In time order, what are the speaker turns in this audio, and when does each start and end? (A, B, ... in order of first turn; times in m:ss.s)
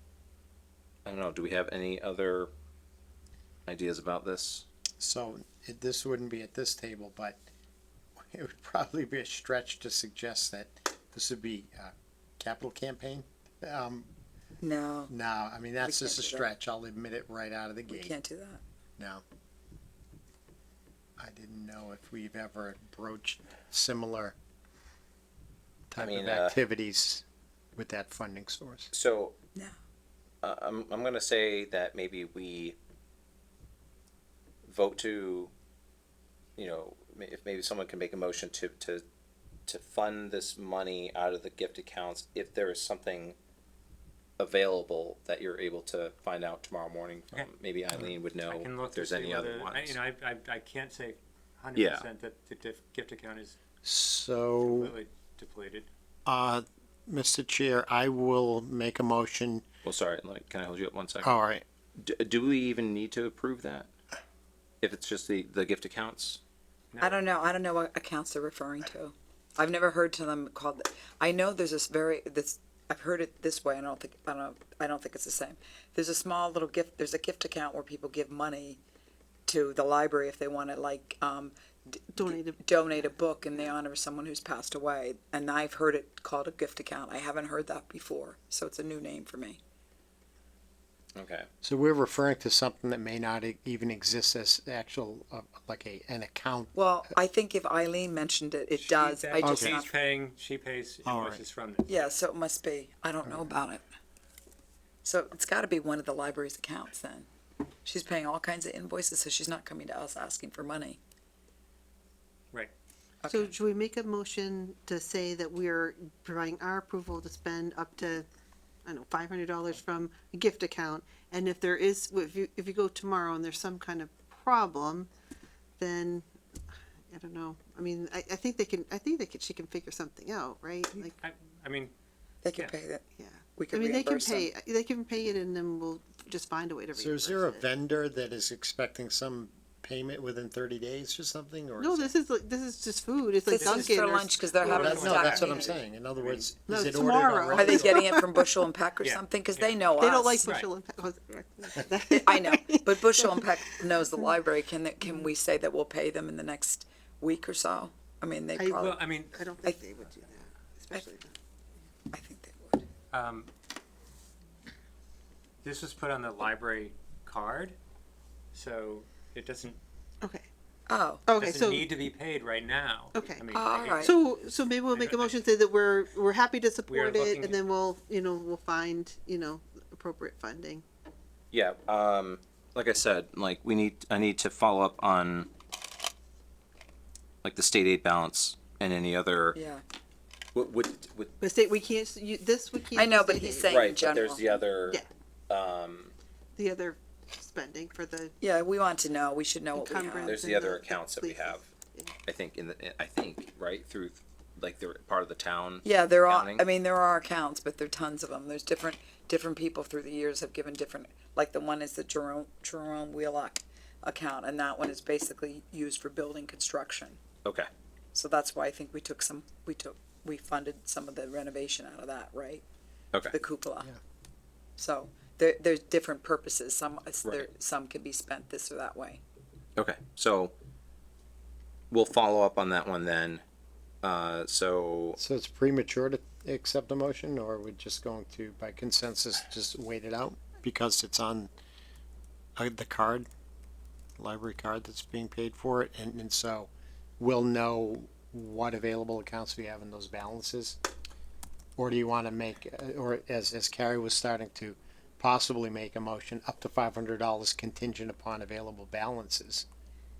0:01.0-0:02.5 A
0:03.7-0:04.7 A
0:05.0-0:07.4 B
0:08.3-0:14.1 B
0:14.6-0:15.1 C
0:15.1-0:18.2 B
0:15.8-0:16.5 C
0:17.9-0:18.6 C
0:19.0-0:19.2 B
0:21.2-0:24.4 B
0:25.9-0:27.2 B
0:26.0-0:26.6 A
0:27.8-0:28.9 B
0:28.9-0:29.4 A
0:30.4-0:32.8 A
0:34.6-0:35.5 A
0:36.6-0:39.0 A
0:39.7-0:43.4 A
0:44.4-0:50.0 A
0:48.4-0:53.6 D
0:51.8-0:52.1 A
0:53.8-0:55.0 B
0:54.6-0:55.9 D
0:56.3-0:59.6 B
0:59.8-1:01.3 A
1:01.2-1:01.6 B
1:02.0-1:03.9 A
1:04.8-1:06.4 A
1:06.9-1:07.3 D
1:07.0-1:18.8 C
1:19.5-1:29.6 C
1:22.1-1:23.7 E
1:31.2-1:31.5 A
1:31.6-1:36.8 B
1:36.8-1:39.9 C
1:38.8-1:42.2 D
1:39.4-1:39.8 B
1:41.0-1:41.4 B
1:41.9-1:43.8 C
1:43.2-1:43.5 B
1:45.0-1:47.3 C
1:47.8-1:51.0 C
1:53.2-1:53.5 C
1:53.3-1:58.3 E
1:58.8-2:05.1 E
2:05.8-2:06.3 E
2:07.1-2:11.2 E
2:11.0-2:11.9 D
2:12.4-2:14.5 C
2:13.2-2:17.6 E
2:16.9-2:22.1 B
2:21.8-2:25.8 E
2:23.5-2:25.7 C
2:24.6-2:26.5 D
2:24.6-2:28.0 B
2:26.7-2:28.5 E
2:27.5-2:30.5 C
2:29.0-2:29.8 D
2:30.0-2:34.4 E
2:30.4-2:30.7 D
2:32.1-2:39.0 C
2:38.6-2:41.3 E
2:38.8-2:39.4 D
2:42.1-2:42.8 C
2:43.1-2:43.5 D
2:45.6-2:47.8 D
2:48.5-2:49.8 D
2:50.9-2:51.2 C
2:51.3-2:51.9 E
2:51.4-2:54.2 D
2:53.2-3:00.8 E
2:53.5-2:54.1 C
2:54.9-2:55.5 D
2:56.9-2:57.6 D
3:01.5-3:05.5 A
3:07.4-3:09.6 A
3:09.6-3:09.8 C
3:10.6-3:11.4 A
3:11.4-3:14.0 E
3:13.0-3:14.7 C
3:13.7-3:16.1 A
3:16.6-3:18.4 E
3:18.4-3:20.4 C
3:19.8-3:22.2 E
3:20.2-3:21.7 A
3:22.3-3:26.6 A
3:25.8-3:37.2 C
3:38.1-3:42.6 C
3:43.3-3:43.9 C
3:44.8-3:49.2 C
3:49.8-3:50.5 A
3:51.9-3:53.4 A
3:54.0-3:55.2 A
3:55.2-4:01.5 B
4:02.6-4:03.3 B
4:04.2-4:10.8 B
4:11.8-4:19.7 B